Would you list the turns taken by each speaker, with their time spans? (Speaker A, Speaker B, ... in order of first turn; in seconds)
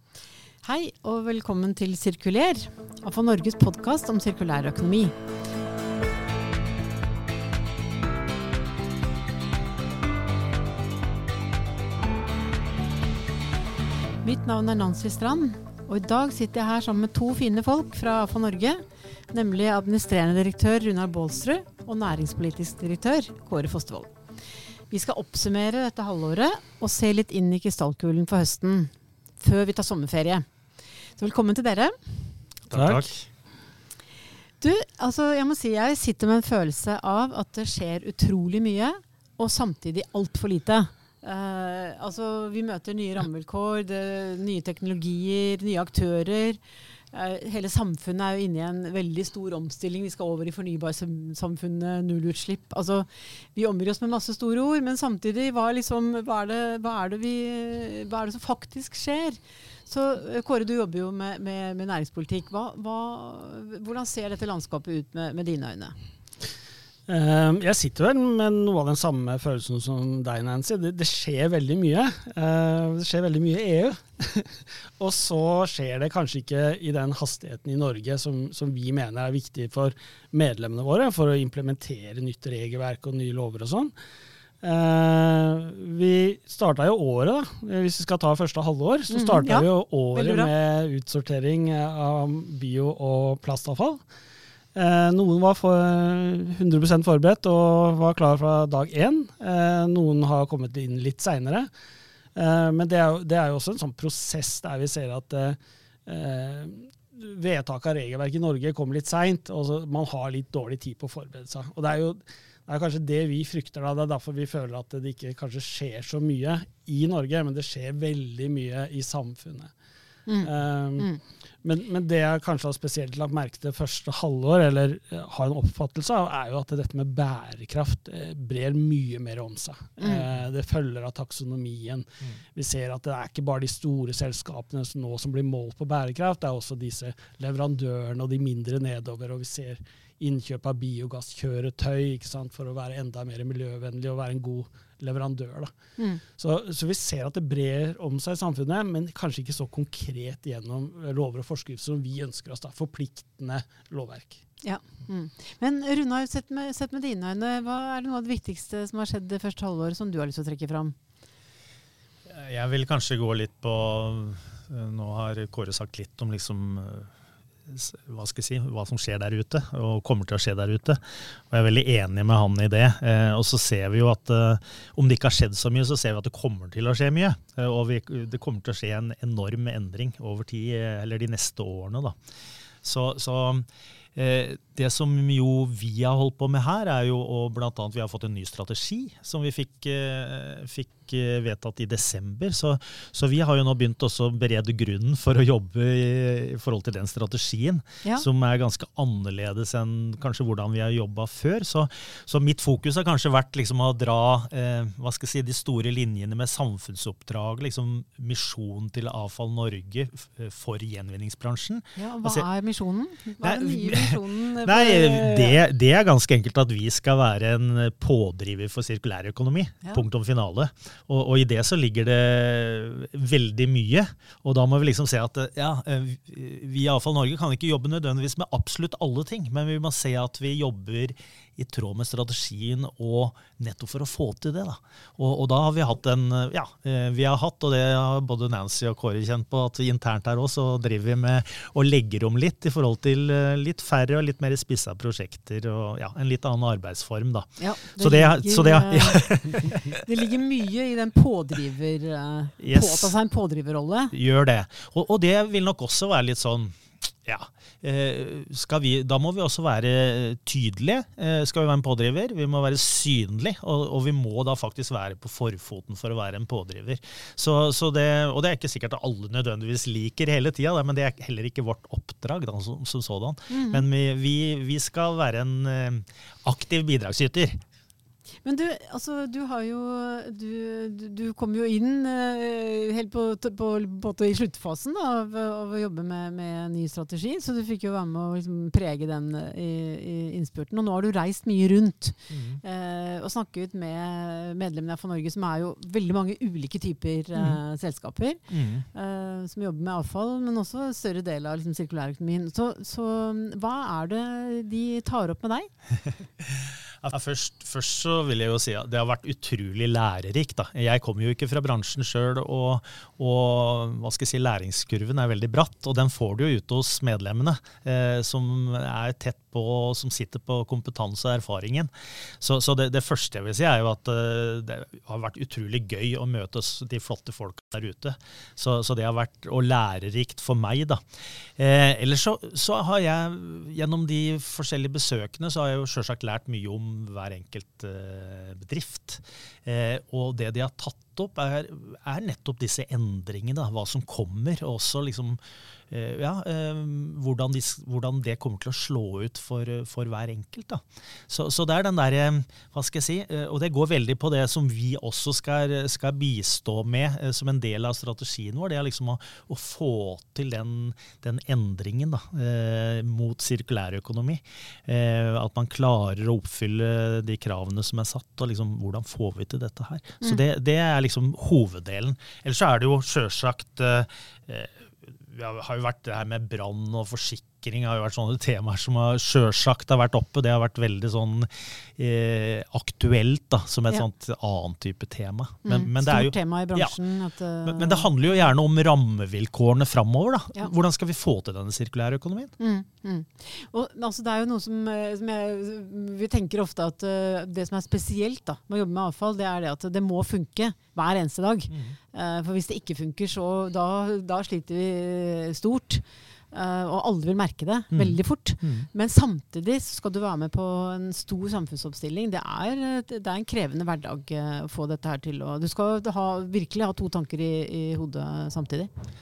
Speaker A: 0.6-5.1, 14.2-24.1, 24.9-30.4, 31.2-32.3, 34.6-46.6, 47.1-65.9, 89.1-90.5, 120.3-121.2, 130.0-130.2, 154.6-160.9, 211.9-215.6, 247.6-254.1, 273.5-273.8, 278.4-305.7, 385.6-388.5, 392.6-418.9
Speaker B: 32.7-33.3, 162.3-167.1, 167.7-182.2, 182.8-212.5, 213.4-250.0, 252.6-253.1, 254.1-277.6, 292.3-292.6, 298.5-298.8, 306.4-331.0, 331.6-345.4, 345.9-386.9, 387.6-392.5, 401.7-402.0, 407.9-408.9
Speaker C: 32.7-33.0, 67.1-83.9, 84.6-94.0, 94.7-101.7, 102.3-119.7, 120.4-121.1, 121.6-145.7, 146.2-154.4